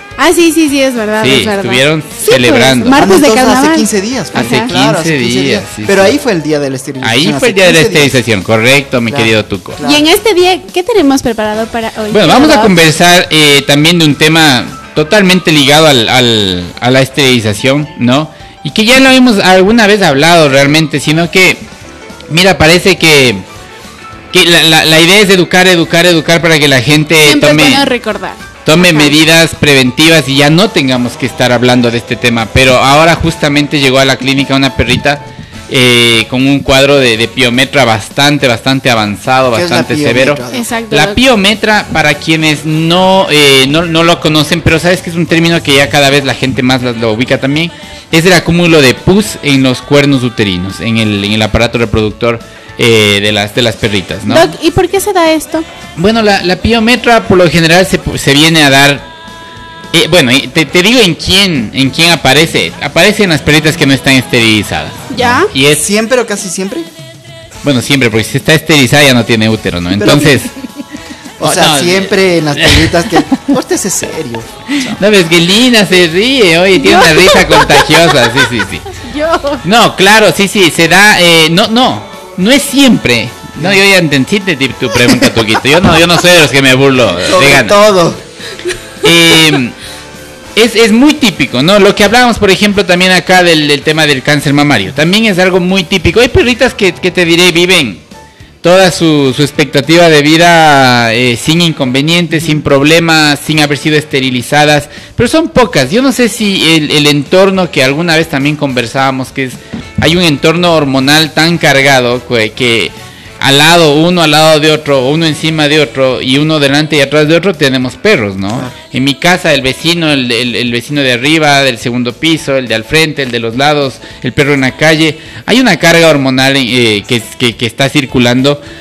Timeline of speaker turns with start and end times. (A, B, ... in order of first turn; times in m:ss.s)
0:00.2-0:04.7 A
0:01.2-0:03.0 B
0:02.9-0:08.2 C
0:04.3-0:06.2 B
0:07.0-0:09.8 B
0:09.1-0:10.1 C
0:09.8-0:12.8 A
0:12.1-0:21.6 B
0:22.3-0:23.4 B
0:24.3-0:27.9 B
0:27.2-0:29.2 A
0:28.6-0:54.5 B
0:39.5-0:40.7 C
0:40.5-0:41.2 A
0:54.3-0:55.7 A
0:56.0-0:59.1 B
0:59.9-1:05.8 B
1:05.1-1:05.5 A
1:05.8-1:06.9 C
1:07.6-1:10.5 B
1:10.0-1:10.5 C
1:11.4-1:15.0 C
1:11.4-1:13.5 B
1:14.8-1:18.9 B
1:16.8-1:19.6 A
1:19.6-1:27.8 B
1:27.2-1:28.2 C
1:29.0-1:29.8 B
1:30.6-1:38.0 B
1:38.6-2:08.6 B